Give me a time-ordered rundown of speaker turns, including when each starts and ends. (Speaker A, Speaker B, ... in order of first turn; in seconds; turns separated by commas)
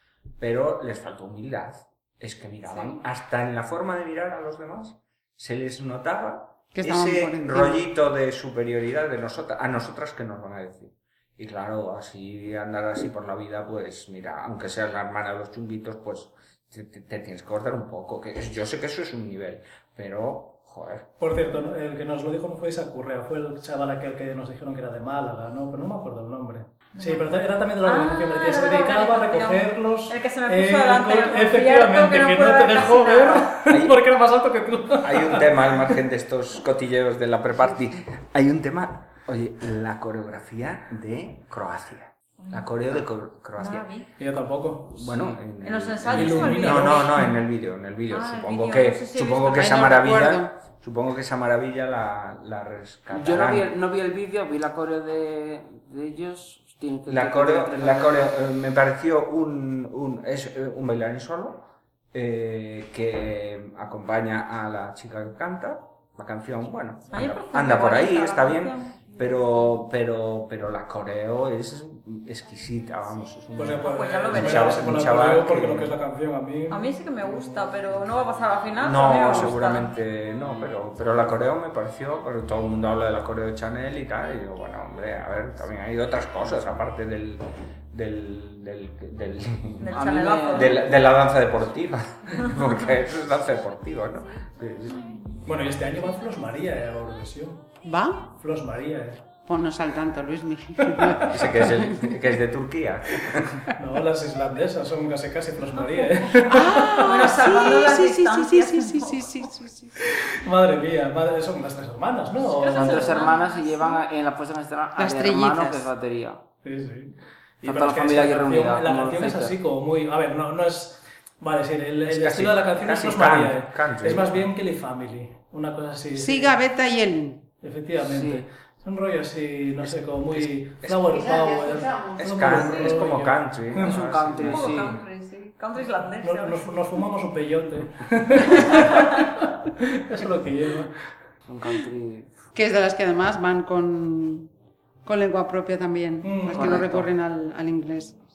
Speaker A: 0.4-21.1, Speaker B: 6.7-7.8, Speaker C: 21.2-35.9, Speaker D: 26.9-27.3, Speaker D: 27.8-33.5, Speaker A: 33.7-34.0, Speaker A: 35.0-43.9, Speaker D: 42.4-42.7, Speaker D: 43.6-44.1, Speaker C: 44.2-45.1, Speaker A: 44.9-53.7, Speaker D: 45.6-47.3, Speaker C: 46.1-47.3, Speaker D: 48.1-49.8, Speaker B: 49.5-50.5, Speaker E: 53.1-58.4, Speaker A: 57.1-75.9, Speaker D: 67.1-69.0, Speaker C: 73.5-77.5, Speaker D: 73.8-74.9, Speaker D: 76.7-79.9, Speaker A: 78.8-95.3, Speaker D: 89.8-90.8, Speaker E: 89.9-90.9, Speaker C: 95.4-97.6, Speaker B: 97.8-98.2, Speaker C: 98.3-99.2, Speaker B: 99.5-102.2, Speaker C: 100.8-101.3, Speaker A: 101.3-103.6, Speaker C: 103.8-107.2, Speaker B: 106.5-109.9, Speaker D: 107.0-109.3, Speaker C: 110.0-113.1, Speaker D: 112.4-114.0, Speaker E: 112.7-116.4, Speaker B: 115.0-115.9, Speaker C: 116.6-126.5, Speaker E: 117.6-119.5, Speaker A: 122.1-124.5, Speaker B: 126.2-127.4, Speaker C: 127.6-133.9, Speaker E: 128.0-128.4, Speaker A: 129.8-131.1, Speaker B: 131.1-133.0, Speaker A: 132.2-135.0, Speaker E: 133.8-135.0, Speaker D: 134.4-136.7, Speaker C: 136.2-140.9, Speaker D: 138.5-139.2, Speaker E: 141.5-142.4, Speaker B: 142.5-144.5, Speaker B: 145.0-148.1, Speaker C: 146.2-146.8, Speaker E: 146.5-147.1